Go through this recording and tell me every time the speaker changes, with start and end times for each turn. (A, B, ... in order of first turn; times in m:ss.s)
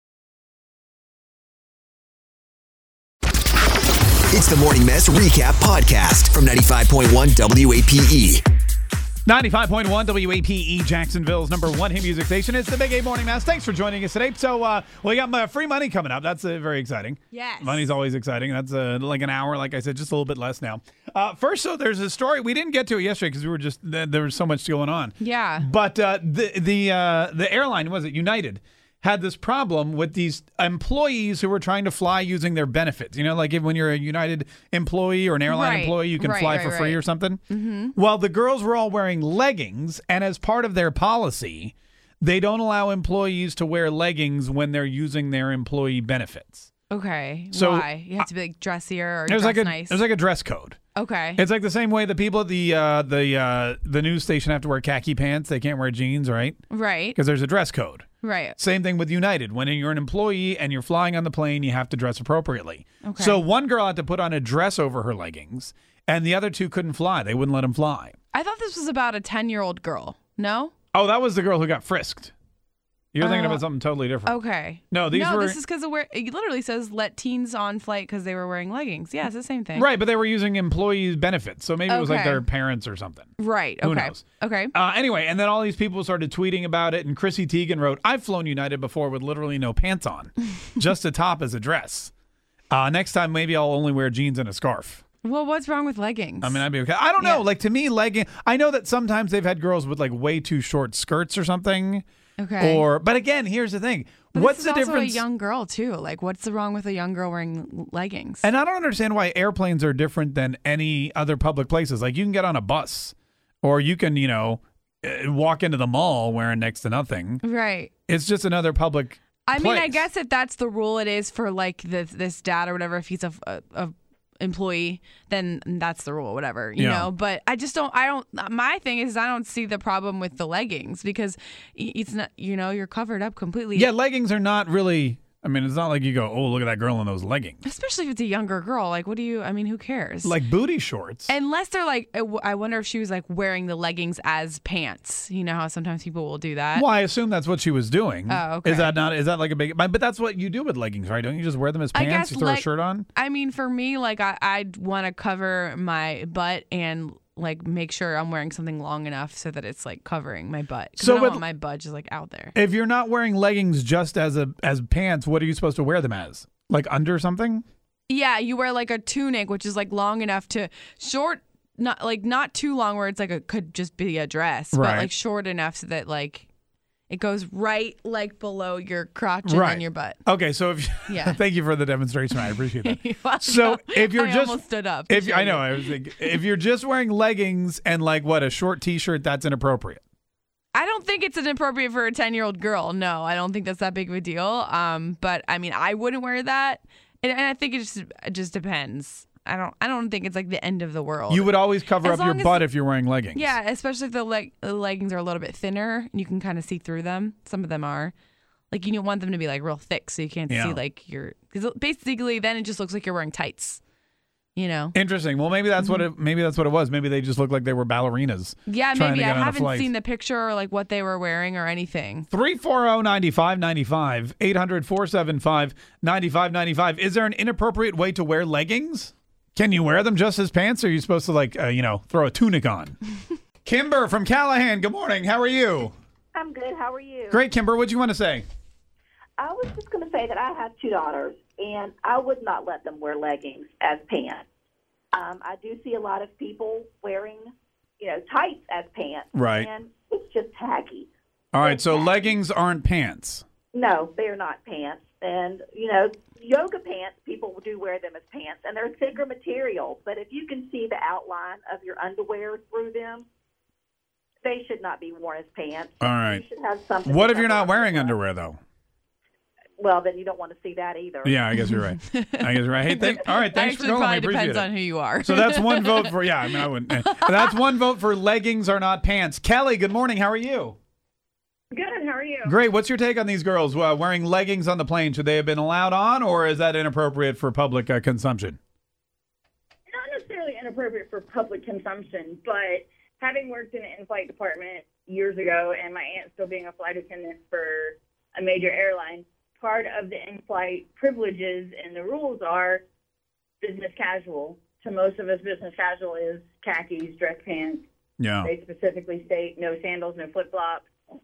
0:04.3-0:08.4 A
0:09.3-0:37.4 B
0:17.3-0:17.9 C
0:25.2-0:25.7 C
0:35.5-0:37.9 C
0:37.9-0:46.7 B
0:46.9-0:50.0 C
0:47.5-0:48.3 B
0:49.3-0:50.8 B
0:51.0-0:51.4 C
0:51.4-1:08.2 B
0:56.7-0:57.2 C
0:58.2-0:58.6 C
1:03.0-1:03.4 C
1:08.3-1:10.7 C
1:10.9-1:12.3 B
1:13.1-1:15.6 B
1:13.2-1:13.7 C
1:14.2-1:19.9 C
1:19.8-1:32.1 B
1:21.9-1:22.5 C
1:23.4-1:24.7 C
1:32.7-1:35.0 B
1:35.2-1:36.7 C
1:36.4-1:42.0 B
1:37.2-1:37.4 C
1:42.4-1:42.8 C
1:42.6-1:45.2 B
1:44.3-1:48.5 C
1:48.4-1:57.4 B
1:57.4-1:57.9 C
1:58.1-2:00.1 B
1:59.5-2:13.9 C
2:06.8-2:07.1 B
2:13.8-2:17.6 B
2:17.6-2:20.4 C
2:20.2-2:21.3 B
2:21.3-2:26.9 C
2:26.8-2:33.1 B
2:28.3-2:29.0 C
2:31.9-2:42.6 C
2:41.0-2:41.4 B
2:42.6-2:47.6 B
2:48.1-2:56.5 C
2:54.7-2:55.1 B
2:57.1-3:00.2 C
2:59.4-3:10.0 B
3:01.1-3:01.4 C
3:02.8-3:06.4 C
3:10.7-3:22.7 C
3:21.3-3:23.5 B
3:23.3-3:28.1 C
3:28.7-3:33.8 C
3:30.5-3:30.8 B
3:34.6-3:35.0 C
3:34.9-3:39.9 B
3:35.8-3:36.0 C
3:38.7-3:42.3 C
3:42.3-3:53.0 B
3:53.6-3:55.9 B
3:56.3-3:57.4 D
3:57.3-3:58.5 B
3:59.4-4:04.4 D
4:05.1-4:11.1 D
4:09.3-4:09.7 B
4:11.5-4:13.4 B
4:11.6-4:12.2 D
4:13.7-4:23.3 D
4:24.4-4:28.2 D
4:26.0-4:26.4 B
4:27.0-4:28.6 B
4:29.8-4:31.4 D
4:31.2-4:40.8 B
4:31.6-4:36.1 C
4:36.9-4:37.3 C
4:41.7-4:42.5 E
4:42.4-4:48.6 B
4:49.9-5:02.8 E
5:03.6-5:07.8 E
5:08.2-5:08.5 B
5:08.4-5:10.9 E